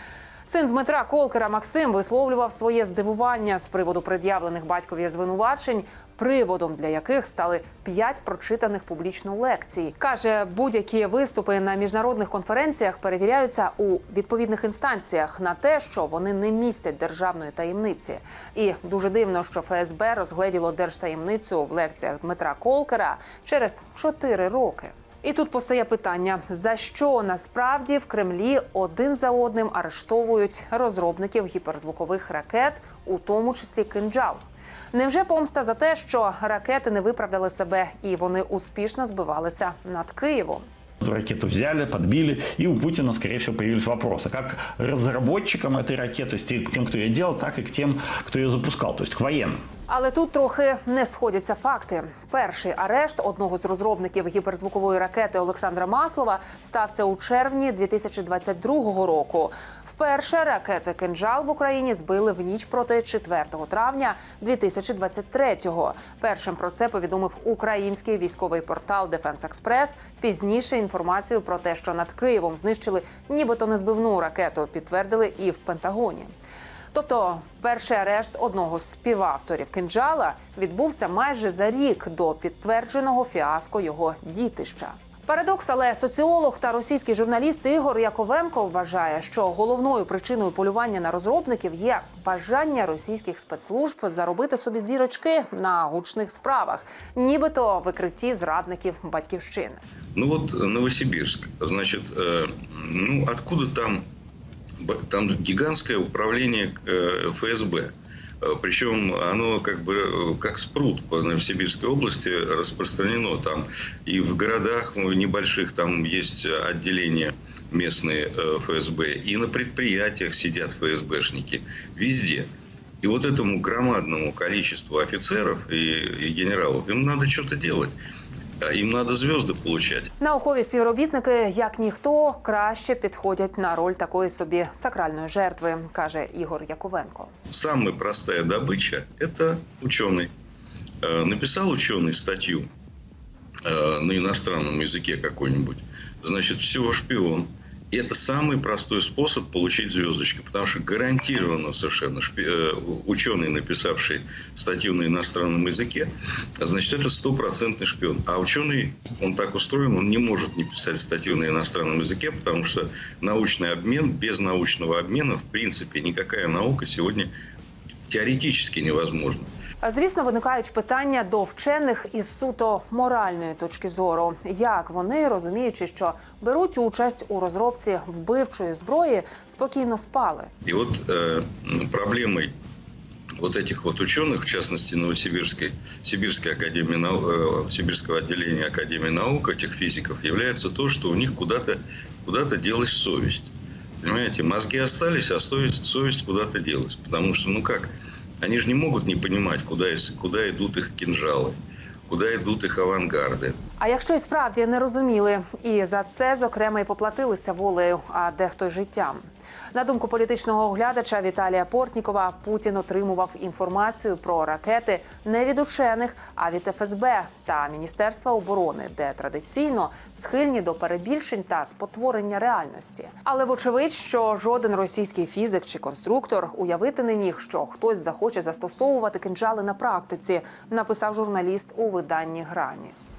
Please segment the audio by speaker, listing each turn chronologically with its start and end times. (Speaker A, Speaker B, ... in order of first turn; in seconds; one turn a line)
Speaker A: 0.5-34.4
Speaker A: 34.9-40.6
Speaker B: 41.0-49.6
Speaker A: 49.9-76.3
Speaker A: 76.9-99.8
Speaker C: 100.1-104.0
Speaker C: 104.8-122.5
Speaker C: 123.0-127.9
Speaker C: 128.6-130.1
Speaker A: 130.2-137.3
Speaker C: 137.5-140.3
Speaker C: 141.0-142.7
Speaker C: 143.6-167.3
Speaker C: 168.1-169.5
Speaker A: 169.8-180.5
Speaker C: 180.7-182.5
Speaker C: 183.4-193.5
Speaker C: 194.0-201.6
Speaker C: 202.1-203.6
Speaker A: 203.8-209.2
Speaker A: 209.7-232.9